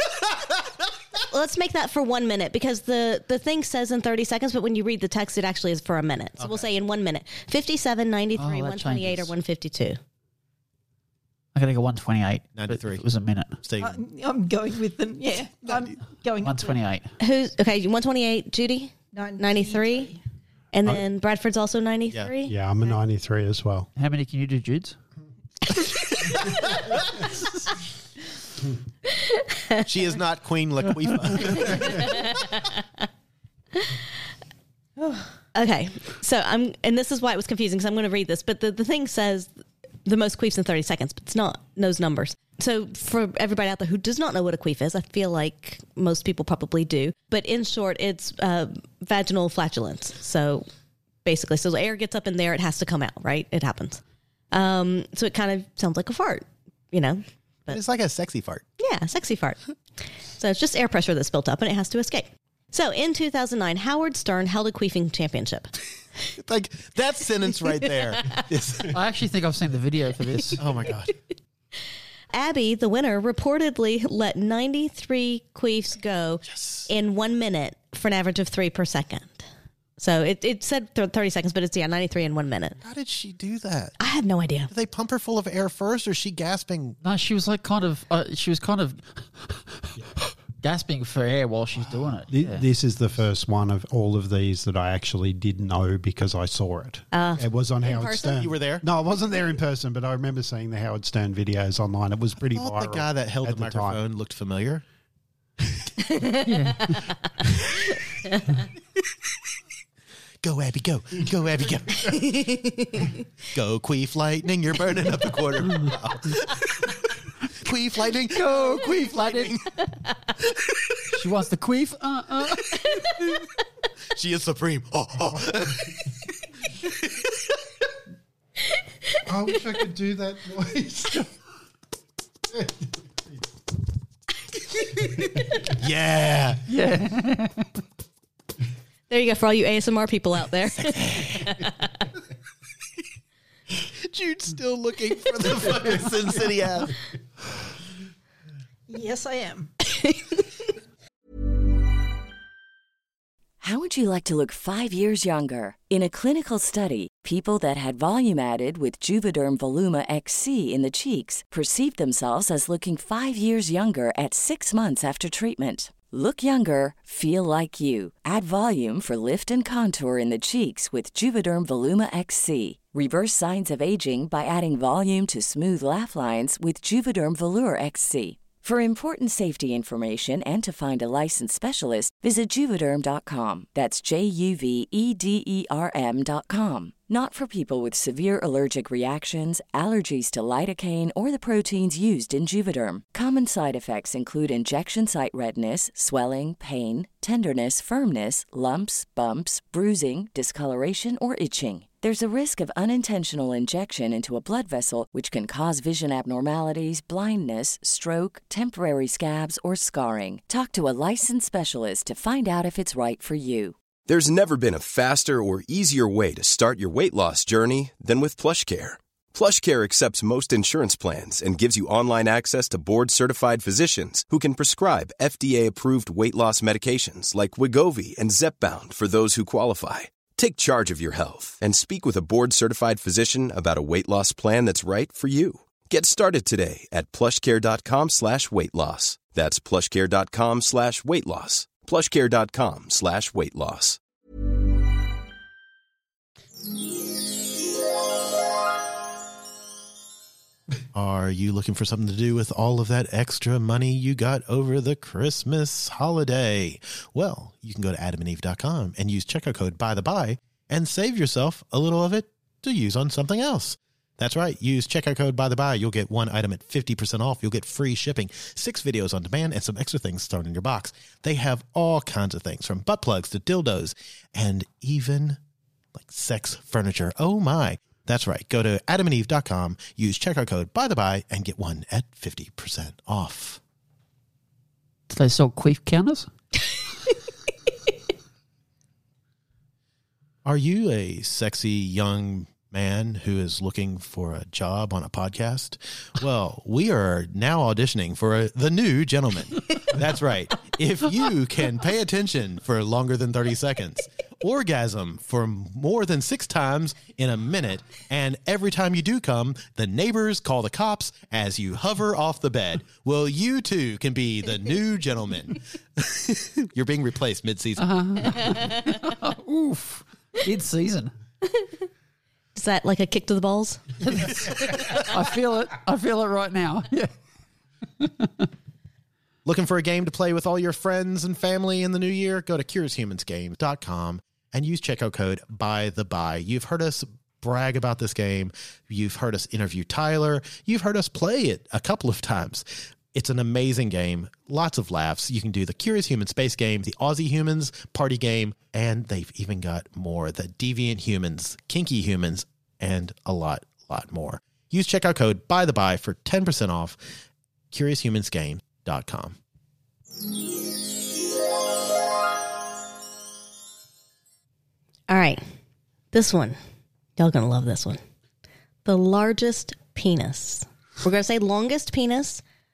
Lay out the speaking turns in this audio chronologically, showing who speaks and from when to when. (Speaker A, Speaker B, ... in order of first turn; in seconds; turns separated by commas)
Speaker A: 1.3-10.0, Speaker B: 6.4-6.7, Speaker C: 8.4-9.3, Speaker C: 11.6-13.6, Speaker B: 12.6-13.0, Speaker B: 13.6-14.0, Speaker D: 13.8-16.8, Speaker B: 15.7-15.9, Speaker C: 16.4-17.1, Speaker A: 17.2-20.1, Speaker D: 19.1-20.2, Speaker A: 20.7-22.5, Speaker E: 22.5-23.9, Speaker C: 24.0-25.0, Speaker A: 29.3-29.8, Speaker B: 29.9-32.2, Speaker A: 31.7-32.7, Speaker A: 35.0-50.7, Speaker A: 51.2-54.0, Speaker A: 54.5-57.8, Speaker B: 57.7-58.6, Speaker A: 58.8-59.6, Speaker A: 60.4-65.7, Speaker B: 66.4-69.0, Speaker C: 68.9-70.6, Speaker B: 70.6-71.2, Speaker A: 72.3-79.5, Speaker B: 76.5-76.9, Speaker A: 80.0-82.8, Speaker B: 82.8-84.0, Speaker A: 84.0-84.7, Speaker B: 84.7-87.0, Speaker C: 87.0-92.6, Speaker E: 92.3-104.0, Speaker A: 97.1-98.4, Speaker B: 98.4-98.8, Speaker B: 102.5-104.8, Speaker A: 106.0-107.1, Speaker C: 106.5-106.9, Speaker B: 110.4-112.5, Speaker A: 112.1-113.1, Speaker B: 113.5-117.0, Speaker B: 117.6-119.7, Speaker C: 118.3-119.5, Speaker C: 121.1-122.8, Speaker B: 124.1-126.0, Speaker B: 126.8-127.3, Speaker E: 129.3-131.3, Speaker B: 135.6-136.7, Speaker C: 136.7-137.7, Speaker A: 139.1-141.8, Speaker B: 140.8-141.7, Speaker B: 143.8-147.0, Speaker D: 148.9-149.7, Speaker A: 150.0-150.3, Speaker F: 153.6-213.8, Speaker G: 214.1-244.0, Speaker B: 250.9-275.4, Speaker B: 276.0-283.6, Speaker C: 285.1-286.3, Speaker B: 290.4-318.4, Speaker C: 317.8-321.1, Speaker A: 322.6-323.8, Speaker C: 324.0-327.1, Speaker C: 328.0-328.5, Speaker B: 329.4-357.0, Speaker B: 357.7-359.4, Speaker A: 365.1-365.4, Speaker A: 366.1-366.6, Speaker A: 367.2-368.0, Speaker A: 368.9-372.4